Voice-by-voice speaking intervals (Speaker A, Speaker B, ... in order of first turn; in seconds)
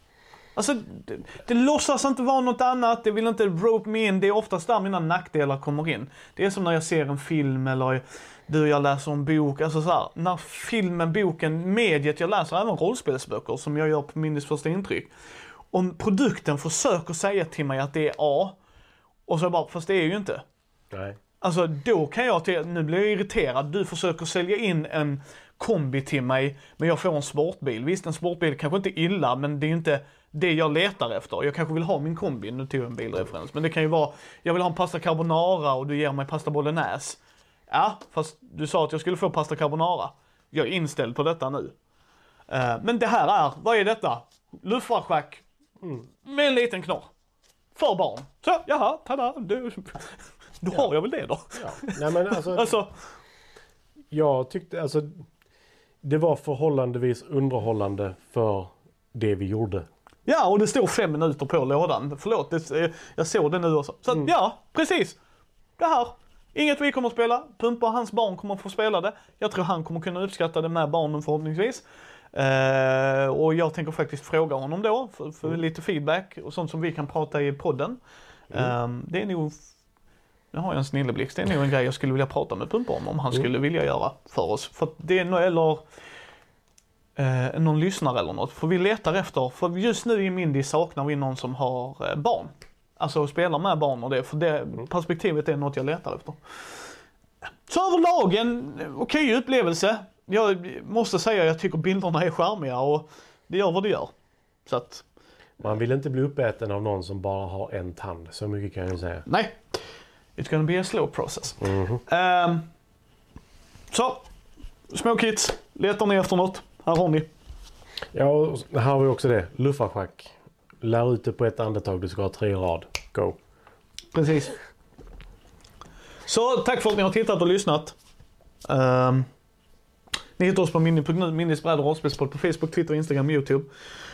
Speaker A: 0.6-15.1, 15.7-18.6, 19.3-20.4, 21.4-41.7, 42.5-45.5, 46.2-47.1, 47.8-52.9, 60.3-65.2, 65.8-71.8, 72.3-78.0, 78.5-79.6, 80.5-85.8, 87.2-96.4, 97.7-104.1, 104.7-105.0, 109.3-109.8, 110.4-112.7, 113.9-114.2, 114.9-117.3, 124.1-124.6, 126.3-128.0, 128.7-129.3, 130.4-133.7
Speaker B: 20.9-21.2, 45.8-46.1, 51.5-52.8, 54.1-55.1, 56.0-59.9, 105.6-109.2, 111.6-112.0, 118.1-123.4